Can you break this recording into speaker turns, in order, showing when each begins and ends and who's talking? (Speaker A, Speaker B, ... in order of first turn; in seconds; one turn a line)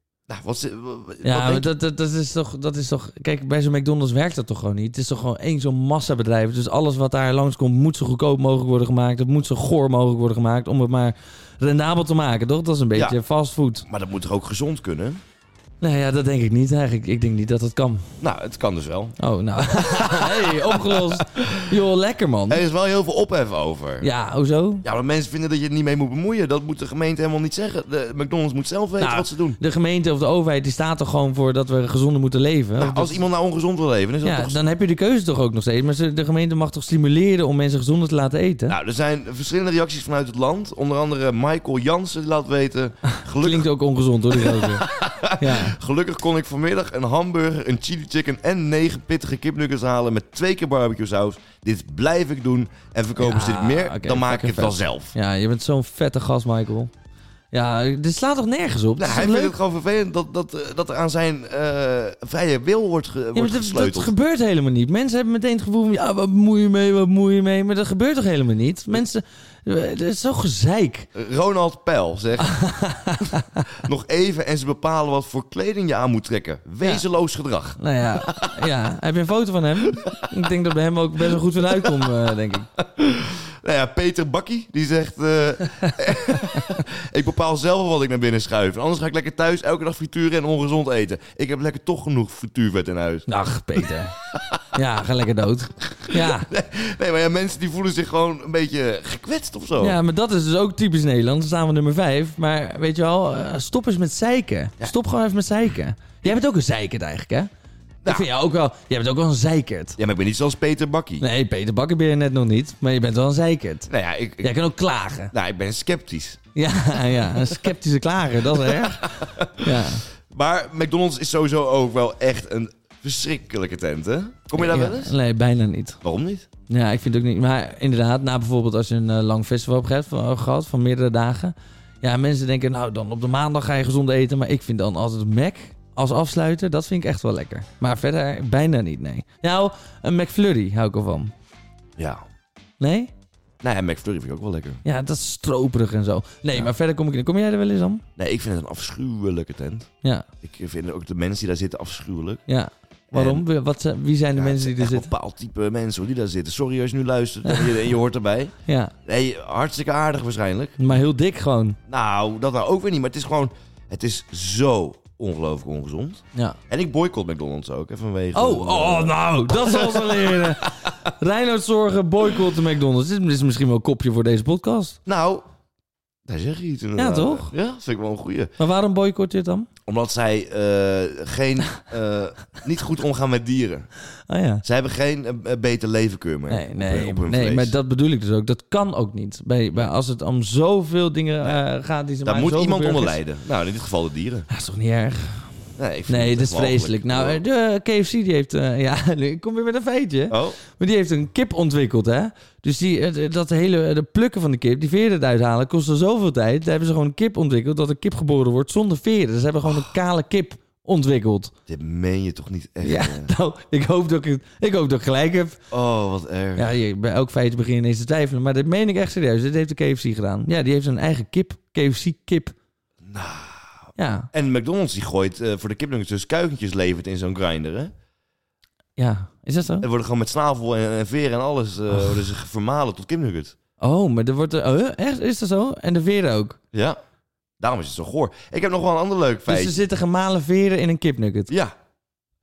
Speaker A: 0.3-1.7
Speaker B: 1.2-13.9
Speaker A: 13.9-15.2
Speaker B: 15.8-18.1
Speaker A: 18.2-19.2
Speaker B: 19.2-22.6
Speaker A: 19.7-21.7
Speaker A: 22.5-24.1
Speaker B: 24.0-24.9
Speaker A: 24.8-29.6
Speaker B: 29.0-33.2
Speaker A: 32.8-34.6
Speaker B: 34.2-38.8
Speaker A: 38.7-43.7
Speaker B: 43.1-45.8
Speaker A: 44.4-55.1
Speaker B: 53.2-56.9
Speaker B: 57.5-59.6
Speaker A: 59.0-64.2
Speaker B: 63.3-71.1
Speaker A: 71.2-72.6
Speaker B: 72.4-73.6
Speaker A: 73.8-78.5
Speaker B: 77.8-82.7
Speaker A: 81.8-82.1
Speaker A: 82.8-93.3
Speaker B: 85.8-86.6
Speaker B: 93.3-94.2
Speaker A: 93.8-94.6
Speaker B: 94.7-96.5
Speaker A: 96.1-100.0
Speaker B: 99.8-107.5
Speaker A: 108.0-108.3
Speaker B: 108.0-110.0
Speaker A: 110.0-111.2
Speaker B: 111.2-113.9
Speaker A: 113.9-114.5
Speaker B: 114.4-115.3
Speaker A: 115.3-117.7
Speaker B: 116.5-120.0
Speaker A: 118.5-125.2
Speaker B: 124.5-126.0
Speaker A: 126.0-126.5
Speaker B: 126.7-141.3
Speaker A: 142.0-142.2
Speaker B: 142.8-143.1
Speaker A: 143.6-144.8
Speaker B: 144.8-148.0
Speaker A: 148.2-149.9
Speaker A: 150.4-152.4
Speaker B: 152.5-155.1
Speaker A: 153.1-153.4
Speaker A: 154.3-158.5
Speaker B: 157.5-157.8
Speaker B: 158.7-158.9
Speaker A: 159.1-160.8
Speaker B: 160.8-161.8
Speaker A: 161.9-170.6
Speaker B: 168.3-175.0
Speaker A: 175.1-175.5
Speaker A: 176.3-178.5
Speaker B: 177.0-177.5
Speaker B: 178.6-179.7
Speaker A: 179.9-183.9
Speaker B: 184.3-184.6
Speaker A: 184.6-187.7
Speaker B: 186.5-193.2
Speaker A: 192.2-194.5
Speaker B: 194.5-195.6
Speaker A: 195.8-197.4
Speaker B: 196.1-211.5
Speaker A: 200.3-200.6
Speaker A: 211.7-213.3
Speaker B: 212.8-215.6
Speaker A: 215.7-216.7
Speaker B: 216.6-222.6
Speaker A: 223.0-227.9
Speaker B: 224.0-224.3
Speaker B: 229.0-229.9
Speaker A: 229.8-233.6
Speaker B: 233.8-236.6
Speaker A: 236.7-237.0
Speaker A: 237.6-239.8
Speaker B: 239.5-241.5
Speaker A: 241.5-241.8